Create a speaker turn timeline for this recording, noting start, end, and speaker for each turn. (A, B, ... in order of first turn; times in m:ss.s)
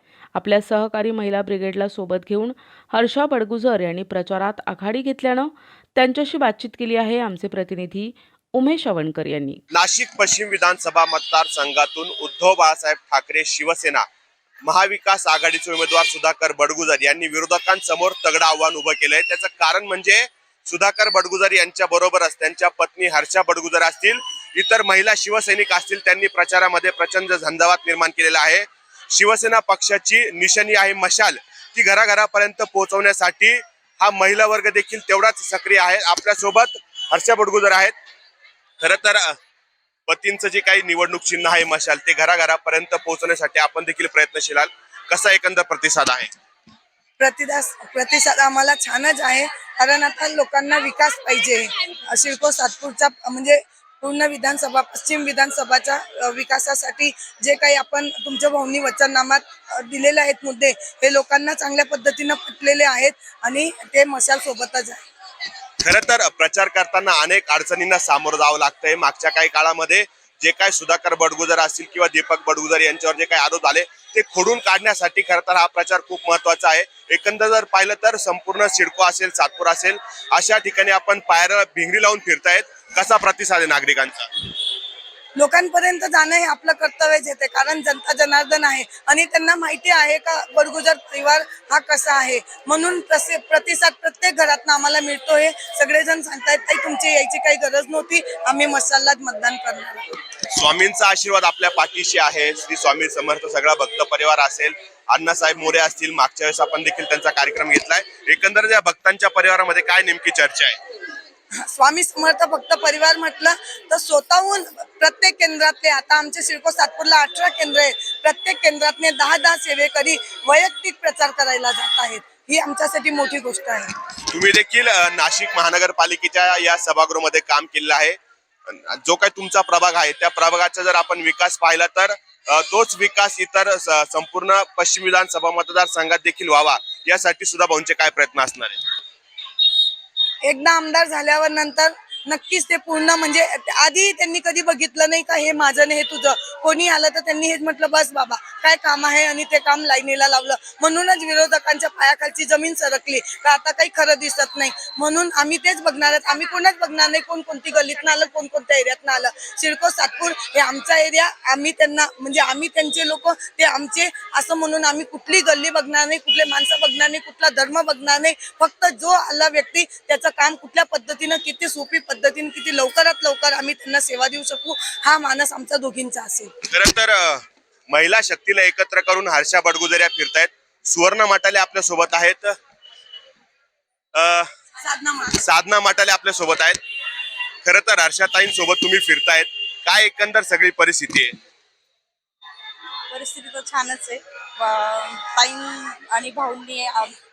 0:00.3-0:09.6 A
0:09.7-0:14.0 B
0:14.6-0:37.9 B
0:38.8-0:39.4 B
0:40.1-0:46.3 B
0:47.2-1:05.0 C
1:05.8-1:24.3 B
1:25.3-1:40.2 C
1:40.5-1:50.8 B
1:51.6-2:03.9 C
2:04.3-2:18.8 B
2:20.4-2:56.5 C
2:56.7-3:02.6 B
3:04.1-3:04.5 B
3:04.8-3:05.4 C
3:05.4-3:06.8 B
3:07.6-3:11.4 B
3:13.1-3:17.1 D